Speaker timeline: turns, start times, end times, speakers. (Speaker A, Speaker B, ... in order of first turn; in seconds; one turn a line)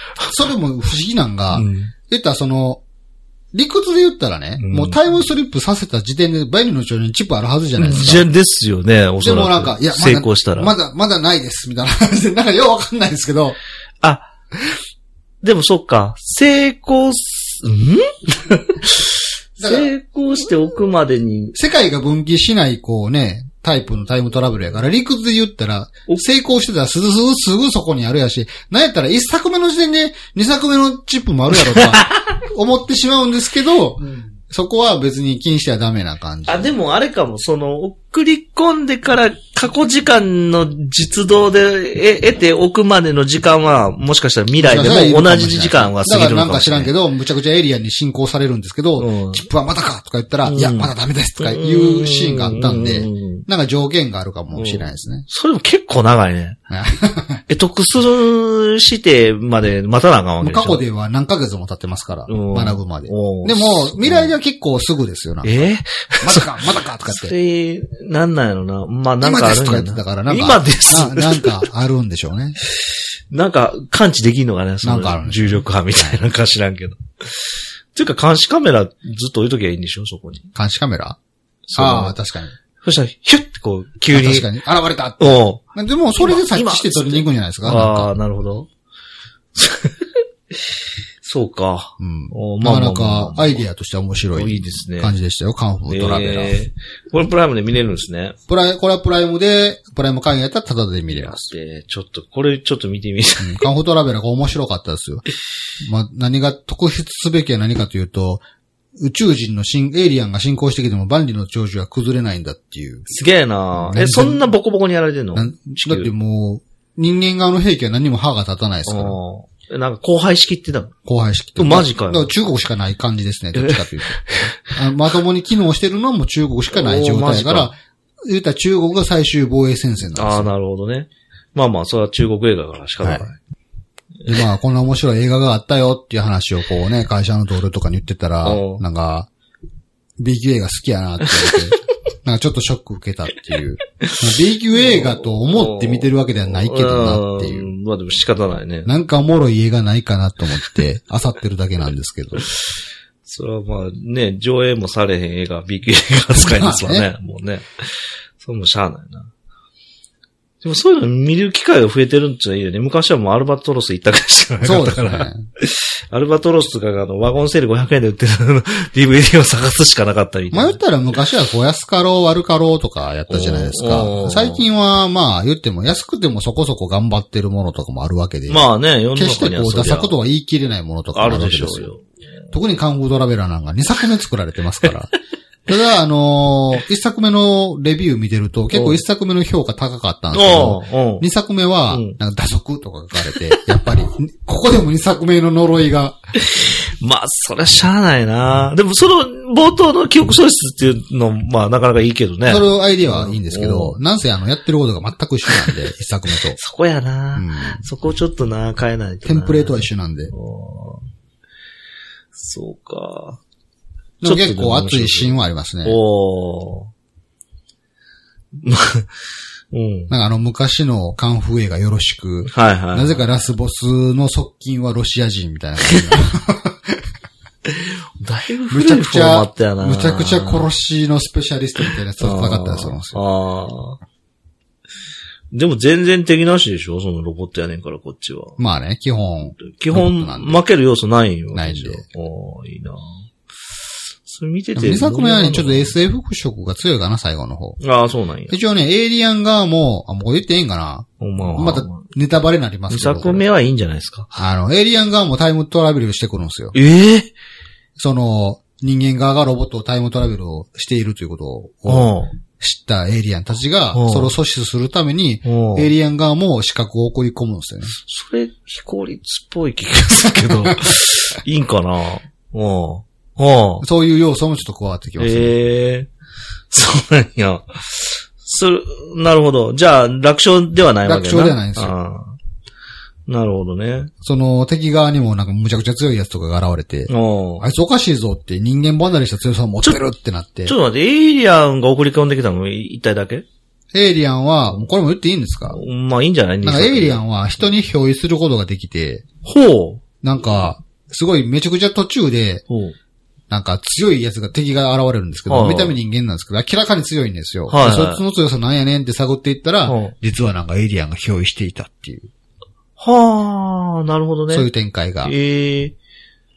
Speaker A: 0.2-2.8
Speaker B: 1.5-1.9
Speaker A: 3.5-8.3
Speaker B: 4.6-5.0
Speaker B: 7.8-10.7
Speaker A: 9.2-13.6
Speaker B: 14.0-14.3
Speaker B: 15.4-21.6
Speaker A: 19.6-19.9
Speaker A: 21.5-36.7
Speaker B: 31.6-32.2
Speaker B: 34.0-34.3
Speaker B: 36.5-46.9
Speaker A: 44.6-55.2
Speaker B: 49.0-49.5
Speaker B: 50.4-53.5
Speaker B: 54.5-56.6
Speaker A: 56.7-57.4
Speaker B: 57.5-60.8
Speaker A: 60.4-65.7
Speaker B: 62.3-64.3
Speaker B: 65.4-71.7
Speaker A: 66.2-67.3
Speaker A: 69.2-72.6
Speaker B: 72.9-80.5
Speaker A: 74.8-76.2
Speaker A: 80.5-81.2
Speaker B: 81.7-82.1
Speaker A: 81.8-82.5
Speaker B: 82.8-84.5
Speaker A: 84.1-88.1
Speaker B: 85.2-85.6
Speaker B: 86.2-88.7
Speaker B: 89.5-90.1
Speaker B: 91.2-93.6
Speaker A: 92.0-96.6
Speaker B: 94.3-95.1
Speaker B: 95.9-98.3
Speaker A: 98.5-101.5
Speaker B: 101.1-103.6
Speaker A: 103.4-105.2
Speaker A: 105.8-108.4
Speaker A: 109.0-113.1
Speaker B: 113.1-116.1
Speaker A: 113.7-114.5
Speaker A: 115.3-119.2
Speaker B: 118.9-120.9
Speaker A: 121.0-130.5
Speaker B: 121.6-122.3
Speaker B: 123.6-124.5
Speaker B: 126.7-127.7
Speaker B: 130.2-133.4
Speaker A: 133.0-133.3
Speaker A: 134.3-139.3
Speaker B: 138.4-138.8
Speaker A: 140.2-147.7
Speaker B: 144.7-148.9
Speaker A: 148.8-152.5
Speaker B: 153.2-159.3
Speaker A: 156.3-157.1
Speaker B: 160.6-170.8
Speaker A: 164.6-165.4
Speaker A: 170.5-181.9
Speaker B: 173.3-174.6
Speaker B: 178.5-180.2
Speaker B: 181.1-182.1
Speaker A: 182.5-185.1
Speaker A: 185.7-196.2
Speaker B: 188.7-189.0
Speaker B: 190.3-191.3
Speaker B: 191.9-192.2
Speaker B: 196.4-204.0
Speaker A: 202.4-206.6
Speaker B: 205.5-205.7
Speaker B: 206.6-211.1
Speaker A: 207.3-207.8
Speaker A: 209.2-210.3
Speaker B: 212.3-213.4
Speaker A: 214.2-216.0
Speaker B: 214.2-216.9
Speaker B: 218.6-219.1
Speaker B: 219.7-220.1
Speaker A: 220.1-227.0
Speaker B: 222.4-223.2
Speaker B: 227.7-230.7
Speaker A: 228.7-233.2
Speaker B: 232.2-234.0
Speaker B: 235.5-238.6
Speaker A: 238.6-240.6
Speaker B: 239.6-243.1
Speaker A: 241.5-242.0
Speaker B: 244.2-245.9
Speaker A: 244.8-247.8
Speaker B: 247.8-248.6
Speaker A: 248.5-253.4
Speaker B: 251.2-252.0
Speaker B: 252.9-254.3
Speaker A: 254.3-256.7
Speaker B: 256.7-257.3
Speaker A: 258.0-267.9
Speaker B: 261.9-262.3
Speaker B: 263.9-264.3
Speaker B: 265.4-265.9
Speaker B: 268.0-273.8
Speaker A: 273.8-275.6
Speaker B: 275.2-276.1
Speaker B: 276.7-282.4
Speaker A: 281.0-281.9
Speaker B: 283.3-284.1
Speaker A: 284.2-290.7
Speaker B: 287.1-287.6
Speaker B: 290.6-293.4
Speaker A: 293.9-295.8
Speaker B: 295.7-297.2
Speaker A: 296.6-299.2
Speaker B: 299.4-300.0
Speaker A: 300.2-302.6
Speaker B: 302.7-302.9
Speaker A: 303.5-312.3
Speaker B: 305.5-305.9
Speaker B: 307.7-308.2
Speaker B: 309.9-310.1
Speaker B: 313.0-314.7
Speaker A: 314.5-315.3
Speaker B: 315.2-315.9